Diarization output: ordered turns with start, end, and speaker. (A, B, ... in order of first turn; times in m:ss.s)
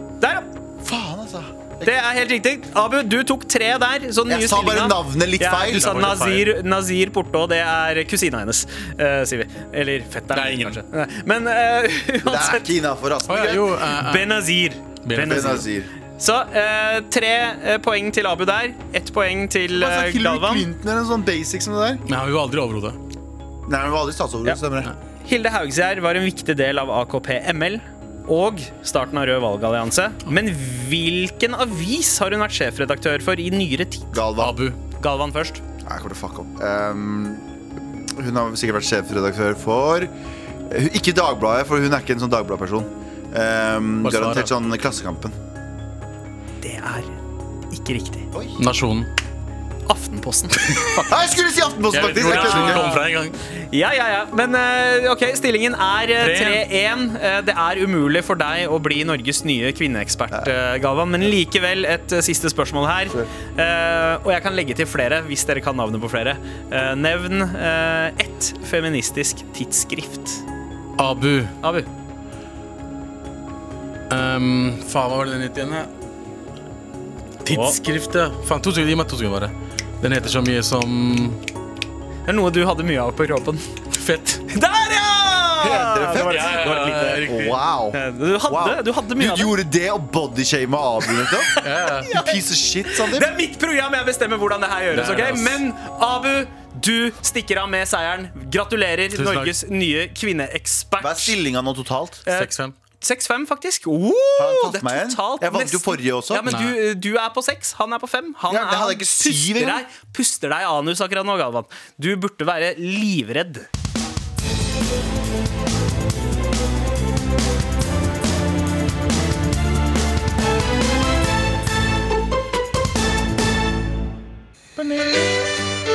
0:00.2-0:00.5 A
0:00.8-0:01.9 B
0:01.8-0:12.8 A
0:04.3-0:06.0 B
0:05.7-0:06.5 C
0:10.3-0:10.8 C
0:12.2-0:13.8 B
0:13.3-0:14.5 C
0:13.9-0:15.7 A
0:15.1-0:15.7 C
0:15.2-0:15.9 B
0:16.2-0:20.7 A
0:19.7-0:22.0 B
0:22.1-0:23.0 C
0:23.7-0:24.9 B
0:25.2-0:34.2 A
0:34.1-0:34.6 B
0:34.4-0:34.8 C
0:35.0-0:35.6 A
0:35.8-0:37.4 B
0:38.1-0:40.1 B
0:40.7-0:45.4 B
0:44.0-0:44.5 C
0:46.6-0:47.2 A
0:47.7-0:48.3 A
0:48.3-0:48.6 B
0:48.6-0:49.1 C
0:49.9-0:51.2 A
0:51.0-0:52.9 B
0:51.9-0:53.4 C
0:52.3-0:53.0 A
0:53.6-1:10.4 A
0:56.2-0:56.6 C
1:11.0-1:11.5 C
1:11.6-1:11.9 A
1:14.1-1:15.9 C
1:17.4-1:21.4 C
1:17.5-1:17.8 A
1:22.3-1:23.6 A
1:23.9-1:24.4 C
1:24.5-1:27.2 A
1:25.6-1:31.5 B
1:26.1-1:27.6 C
1:27.9-1:29.5 A
1:31.1-1:41.4 A
1:31.6-1:32.1 C
1:32.1-1:33.3 B
1:34.9-1:35.6 C
1:39.1-1:39.5 C
1:41.0-1:42.2 B
1:42.3-1:53.7 A
1:42.3-1:42.7 C
1:44.4-1:46.5 B
1:46.5-1:46.8 C
1:48.5-1:49.8 B
2:04.8-2:05.2 B